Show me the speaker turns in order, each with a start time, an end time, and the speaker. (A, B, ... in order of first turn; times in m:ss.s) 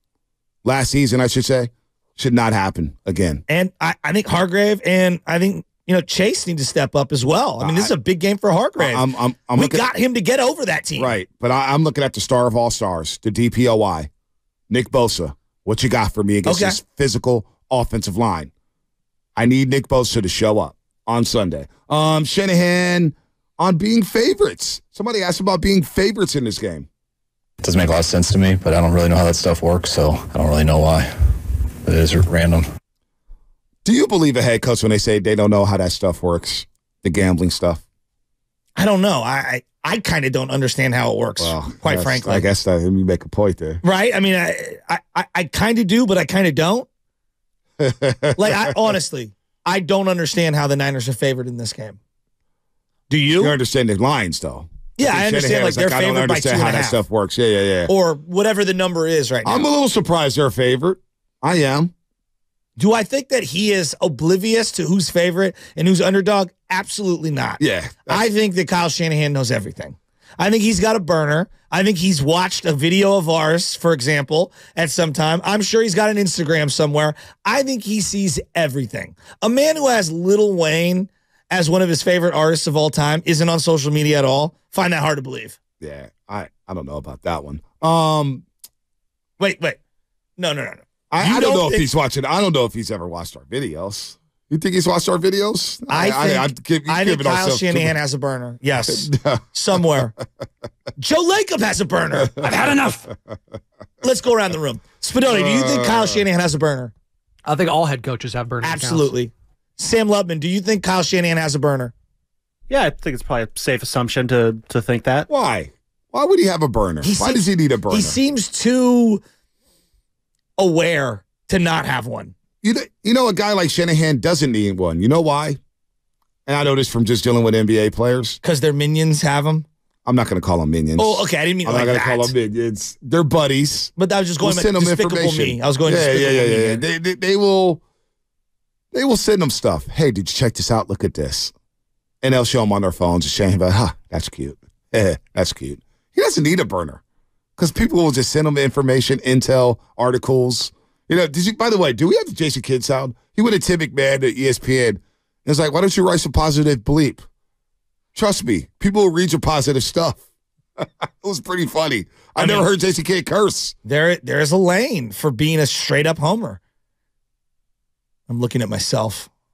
0:00.6-0:03.4 A
0:03.5-0:11.1 B
0:07.6-0:07.9 A
0:08.8-0:09.9 A
0:11.0-0:14.1 A
0:14.7-0:18.5 A
0:16.4-0:16.8 B
0:19.4-0:26.9 A
0:27.6-0:31.1 C
0:31.8-0:32.6 C
0:33.8-0:37.8 A
0:38.8-0:42.5 B
0:41.4-0:43.8 A
0:43.8-0:46.9 B
0:47.8-0:48.7 A
0:48.4-0:52.0 B
0:53.1-0:53.6 B
0:53.4-0:57.9 A
0:55.0-0:57.0 B
0:57.9-0:59.7 B
0:59.4-1:01.9 A
1:02.8-1:25.6 B
1:07.6-1:08.3 A
1:25.8-1:28.5 A
1:29.4-1:29.8 B
1:30.4-1:31.9 B
1:31.1-1:38.0 A
1:35.9-1:40.1 B
1:38.9-1:40.0 A
1:41.0-1:42.9 B
1:42.2-1:42.8 A
1:42.5-1:42.8 D
1:44.0-1:46.9 B
1:45.3-1:46.2 A
1:47.4-1:49.1 D
1:48.6-1:51.9 B
1:52.7-1:55.3 E
1:55.3-1:58.2 A
1:57.0-1:59.2 B
2:00.6-2:02.3 B
2:02.6-2:05.6 A
2:06.5-2:08.4 A
2:08.4-2:09.7 B
2:10.0-2:17.8 A
2:11.0-2:12.3 B
2:14.0-2:16.8 B
2:18.9-2:21.5 A
2:22.2-2:27.0 A
2:27.6-2:37.2 A
2:38.1-2:40.2 A
2:40.8-2:43.8 A
2:42.4-2:42.7 B
2:43.8-2:46.6 B
2:48.3-2:49.3 B